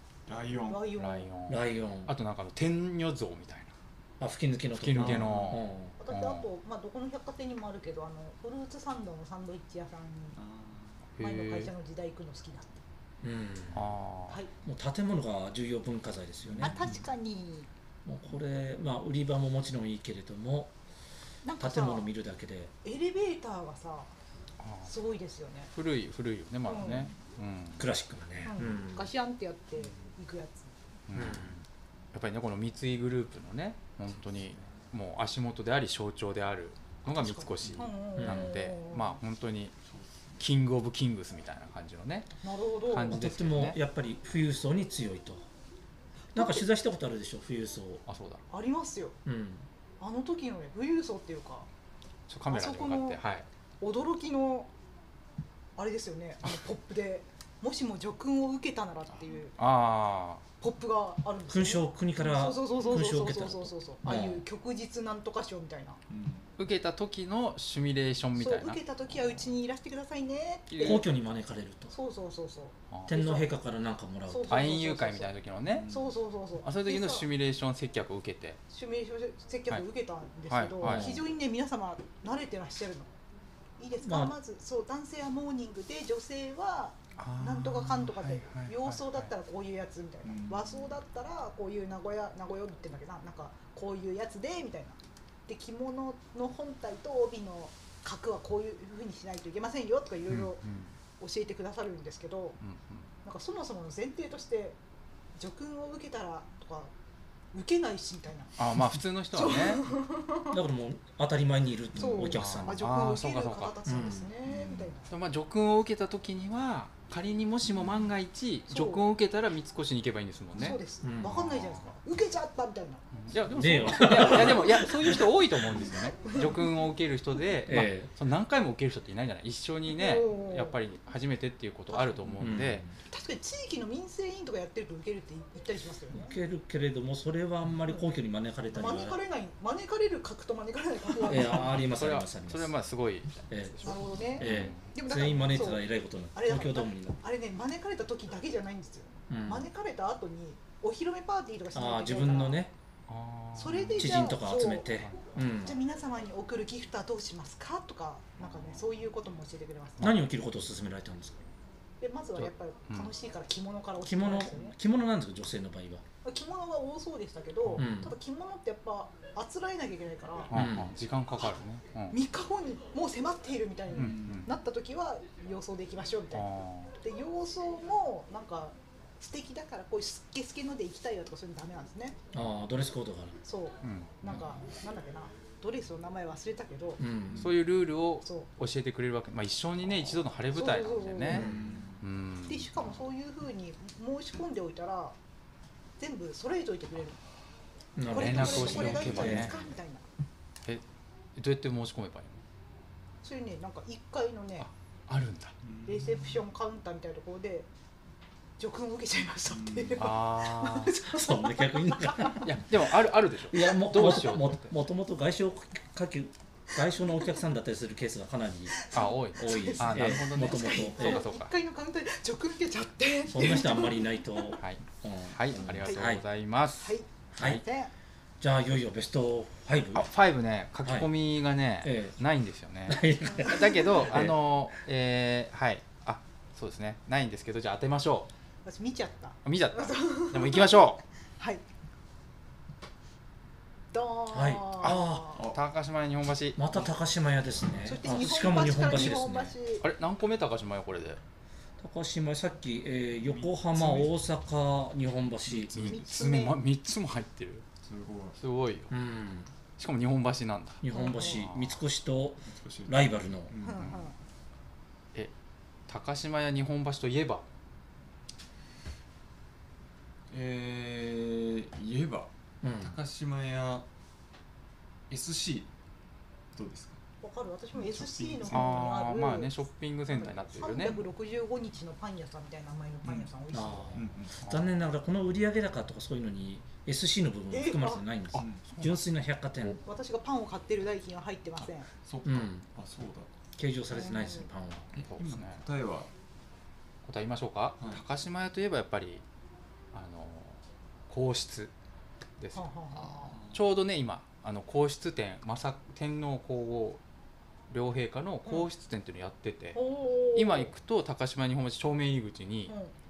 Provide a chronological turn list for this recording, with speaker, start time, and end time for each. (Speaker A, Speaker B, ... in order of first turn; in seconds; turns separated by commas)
Speaker A: 0.3-0.9, Speaker B: 0.7-1.3, Speaker C: 0.9-3.7, Speaker D: 1.5-2.1, Speaker D: 4.2-6.0, Speaker C: 4.8-6.5, Speaker A: 5.0-5.6, Speaker B: 6.0-10.4, Speaker A: 10.3-11.1, Speaker C: 11.2-11.7, Speaker B: 11.2-12.8, Speaker D: 13.2-13.9, Speaker C: 13.7-14.4, Speaker D: 14.6-16.9, Speaker A: 16.5-17.1, Speaker B: 16.6-17.7, Speaker D: 18.1-20.7, Speaker B: 21.4-22.1, Speaker D: 21.6-22.7, Speaker B: 22.8-24.1, Speaker C: 24.6-24.9, Speaker B: 24.9-25.7, Speaker C: 25.7-27.9, Speaker B: 26.6-27.1, Speaker D: 27.8-29.1, Speaker B: 28.4-30.7, Speaker A: 29.8-30.1, Speaker C: 31.1-39.8, Speaker D: 31.1-31.6, Speaker A: 34.2-34.7, Speaker B: 37.2-39.2, Speaker A: 37.6-37.9, Speaker D: 38.2-38.5, Speaker A: 39.9-40.5, Speaker C: 40.4-42.3, Speaker B: 42.4-43.2, Speaker C: 42.8-43.8, Speaker D: 43.1-45.5, Speaker B: 46.3-46.6, Speaker D: 46.3-48.0, Speaker C: 48.1-48.4, Speaker B: 48.5-49.2, Speaker D: 49.2-49.7, Speaker B: 50.0-51.7, Speaker C: 52.3-53.5, Speaker B: 52.5-53.2, Speaker B: 53.8-54.7, Speaker B: 55.8-59.6, Speaker A: 59.1-59.5, Speaker C: 59.6-60.4, Speaker B: 60.6-66.0, Speaker D: 61.5-64.5, Speaker A: 66.1-66.5, Speaker C: 66.6-68.8, Speaker B: 68.3-71.1, Speaker C: 70.7-71.0, Speaker D: 70.8-71.9, Speaker B: 71.9-73.5, Speaker D: 73.1-74.6, Speaker B: 74.3-75.3, Speaker C: 74.5-75.9, Speaker A: 75.7-76.2, Speaker B: 75.9-77.3, Speaker C: 76.6-78.6, Speaker B: 78.7-83.1, Speaker C: 80.5-81.2, Speaker D: 80.8-81.2, Speaker B: 83.8-100.6, Speaker D: 84.0-84.4, Speaker C: 87.2-89.3, Speaker A: 90.2-91.0, Speaker C: 100.3-100.9, Speaker B: 101.2-102.6, Speaker C: 102.6-103.1, Speaker B: 103.2-104.8, Speaker B: 105.4-106.9, Speaker B: 107.5-108.8, Speaker C: 108.6-109.9, Speaker B: 109.3-110.6, Speaker D: 110.5-112.8, Speaker B: 112.0-115.1, Speaker C: 112.2-113.7, Speaker D: 113.9-114.3, Speaker A: 114.5-114.9, Speaker C: 115.1-120.8, Speaker B: 118.7-119.0, Speaker B: 120.5-123.0, Speaker D: 121.0-121.9, Speaker C: 123.1-132.9, Speaker D: 123.5-125.5, Speaker B: 124.0-124.4, Speaker A: 125.7-126.0, Speaker B: 126.2-126.7, Speaker D: 127.7-128.1, Speaker B: 129.9-130.8, Speaker A: 132.3-132.6, Speaker D: 132.4-132.9, Speaker B: 133.1-136.4, Speaker D: 136.1-139.2, Speaker B: 138.7-141.8, Speaker D: 141.2-142.7, Speaker C: 141.3-144.9, Speaker D: 143.5-147.2, Speaker B: 143.8-152.6, Speaker D: 149.3-149.7, Speaker D: 151.7-152.7, Speaker C: 153.1-154.1, Speaker B: 153.6-155.0, Speaker D: 154.0-155.8, Speaker C: 155.0-155.3, Speaker B: 155.6-160.2, Speaker C: 158.4-158.8, Speaker D: 160.0-161.4, Speaker B: 162.0-164.8, Speaker C: 162.4-163.1, Speaker D: 164.0-166.0, Speaker B: 166.2-170.5, Speaker D: 167.8-168.2, Speaker C: 170.5-172.2, Speaker D: 170.5-171.0, Speaker B: 172.1-182.2, Speaker C: 173.9-174.5, Speaker A: 173.9-174.5, Speaker C: 176.3-176.9, Speaker D: 182.3-183.4, Speaker B: 183.4-187.0, Speaker C: 183.8-184.4, Speaker D: 187.0-187.5, Speaker A: 187.3-187.6, Speaker C: 187.4-191.5, Speaker B: 188.2-188.5, Speaker B: 190.5-191.4, Speaker D: 191.3-191.8, Speaker A: 191.3-192.0, Speaker C: 192.0-192.9, Speaker B: 192.5-195.2, Speaker B: 196.0-197.2, Speaker D: 198.0-199.6, Speaker B: 198.1-200.0, Speaker C: 198.1-199.6, Speaker A: 199.2-199.5, Speaker C: 201.4-202.4, Speaker B: 203.2-204.7, Speaker C: 204.6-205.6, Speaker A: 205.6-206.4, Speaker B: 205.9-207.7, Speaker B: 208.6-212.4, Speaker A: 209.5-210.2, Speaker C: 210.0-211.0, Speaker D: 211.1-221.3, Speaker C: 212.4-214.7, Speaker B: 218.8-224.5, Speaker C: 218.9-221.5, Speaker D: 223.3-226.2, Speaker C: 224.6-227.6, Speaker B: 225.8-226.2, Speaker B: 226.8-227.9, Speaker D: 227.3-227.6, Speaker D: 228.4-230.1, Speaker C: 229.9-238.3, Speaker D: 230.8-231.1, Speaker D: 231.8-232.2, Speaker D: 232.9-234.4, Speaker B: 233.3-234.0, Speaker B: 238.7-240.8, Speaker C: 239.4-241.0, Speaker B: 243.9-245.4, Speaker D: 244.3-245.4, Speaker C: 244.8-246.8, Speaker A: 245.3-245.6, Speaker D: 246.6-249.6, Speaker B: 247.8-249.9, Speaker C: 249.8-251.2, Speaker D: 251.8-255.7, Speaker A: 253.2-254.1, Speaker A: 255.5-256.0, Speaker C: 255.7-257.7, Speaker B: 255.8-256.6, Speaker A: 257.8-258.4, Speaker C: 258.4-258.9, Speaker D: 258.9-259.5, Speaker C: 259.8-261.8, Speaker D: 260.8-263.5, Speaker B: 260.9-261.4, Speaker A: 262.4-264.1, Speaker B: 263.6-264.1, Speaker C: 265.9-267.4, Speaker A: 270.3-273.9, Speaker D: 272.6-273.0, Speaker A: 275.1-275.7, Speaker A: 276.5-277.0, Speaker B: 277.2-279.5, Speaker A: 277.7-278.9, Speaker C: 278.5-281.0, Speaker B: 280.1-284.0, Speaker A: 280.8-281.1, Speaker A: 283.0-283.3, Speaker D: 283.5-289.8, Speaker A: 283.9-284.4, Speaker B: 287.5-288.0, Speaker C: 288.3-289.0, Speaker A: 288.4-288.6, Speaker B: 289.6-291.9, Speaker A: 291.6-293.3, Speaker D: 292.2-292.7, Speaker D: 293.6-294.9, Speaker B: 293.9-294.5, Speaker A: 294.9-296.1, Speaker C: 295.1-295.6, Speaker C: 297.1-299.2, Speaker C: 299.9-301.7, Speaker C: 302.4-302.7, Speaker B: 302.5-303.4, Speaker A: 302.9-303.7, Speaker C: 303.4-307.0, Speaker C: 307.7-309.8, Speaker B: 309.7-310.7, Speaker C: 310.3-312.8